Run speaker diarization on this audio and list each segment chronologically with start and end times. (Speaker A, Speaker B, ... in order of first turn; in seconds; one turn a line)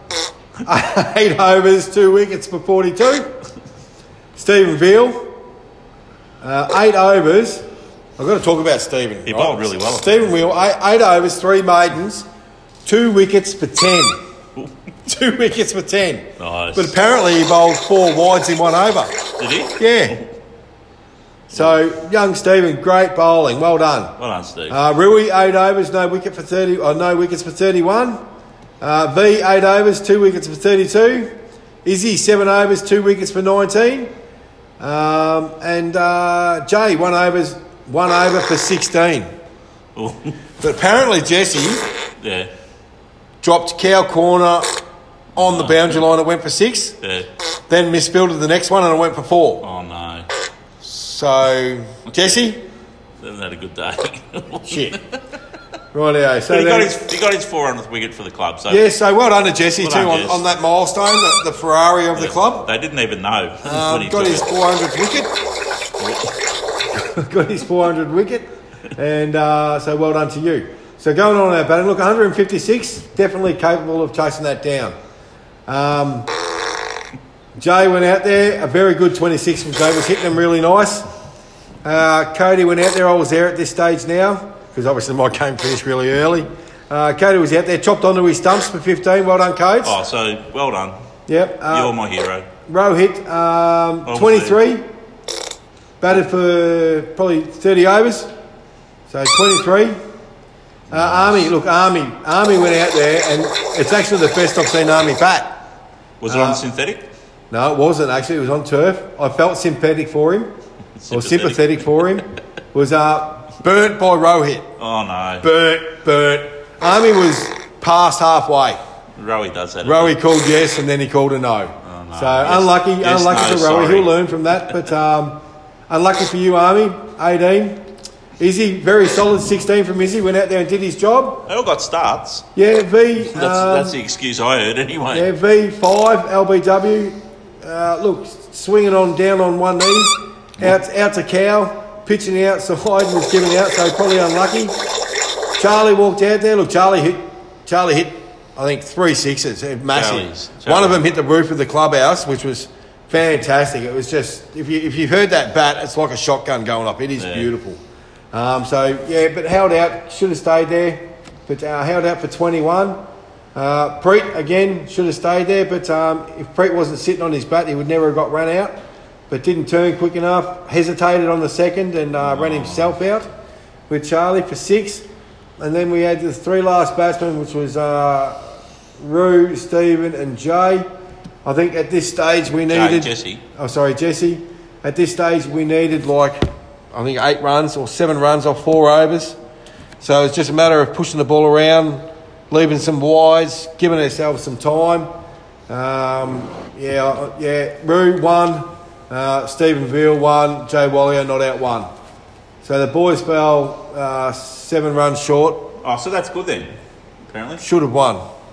Speaker A: 0.6-3.3
Speaker A: 4.4-5.3
Speaker A: 6.4-7.7
Speaker A: 8.2-12.3
Speaker B: 9.3-10.3
Speaker A: 12.8-14.2
Speaker A: 15.1-19.2
Speaker B: 16.4-17.0
Speaker B: 19.4-20.3
Speaker A: 19.8-20.2
Speaker A: 21.5-24.1
Speaker B: 24.2-24.8
Speaker A: 24.7-28.2
Speaker A: 28.8-31.3
Speaker A: 31.8-34.1
Speaker A: 34.8-39.3
Speaker B: 40.0-40.4
Speaker A: 40.6-41.9
Speaker B: 42.2-42.5
Speaker A: 43.4-44.8
Speaker A: 45.4-47.0
Speaker B: 45.4-46.0
Speaker B: 47.0-47.3
Speaker A: 47.7-49.6
Speaker B: 49.6-50.3
Speaker A: 50.8-52.6
Speaker B: 52.1-52.4
Speaker B: 53.2-55.2
Speaker A: 54.7-55.0
Speaker A: 55.9-57.0
Speaker B: 56.5-58.9
Speaker A: 58.7-62.7
Speaker B: 59.8-60.4
Speaker B: 62.1-64.5
Speaker A: 63.6-65.4
Speaker B: 66.0-66.3
Speaker A: 66.9-74.9
Speaker A: 75.7-76.3
Speaker A: 77.6-81.1
Speaker A: 81.8-90.0
Speaker B: 89.8-91.0
Speaker A: 91.3-92.0
Speaker B: 91.7-92.5
Speaker A: 92.7-94.8
Speaker B: 94.1-94.6
Speaker A: 96.0-98.3
Speaker A: 99.1-100.0
Speaker A: 100.9-105.6
Speaker B: 100.9-101.5
Speaker B: 106.2-107.0
Speaker A: 106.3-106.6
Speaker A: 107.5-110.5
Speaker B: 111.0-112.0
Speaker A: 111.1-114.7
Speaker B: 114.8-115.5
Speaker A: 115.4-118.8
Speaker B: 119.2-120.2
Speaker A: 119.8-127.8
Speaker B: 121.8-124.1
Speaker A: 128.4-131.5
Speaker B: 131.5-132.4
Speaker A: 132.6-134.0
Speaker B: 133.2-135.3
Speaker A: 135.1-144.8
Speaker A: 145.6-157.8
Speaker B: 149.9-151.0
Speaker B: 157.2-157.5
Speaker A: 158.3-163.0
Speaker A: 163.6-168.8
Speaker A: 169.3-173.3
Speaker B: 172.2-172.9
Speaker A: 173.9-175.1
Speaker A: 175.6-180.9
Speaker A: 181.4-186.4
Speaker B: 182.7-183.4
Speaker A: 186.9-189.4
Speaker A: 190.0-195.1
Speaker A: 195.7-201.9
Speaker A: 202.6-205.7
Speaker B: 205.8-206.7
Speaker B: 207.3-207.6
Speaker A: 207.6-208.2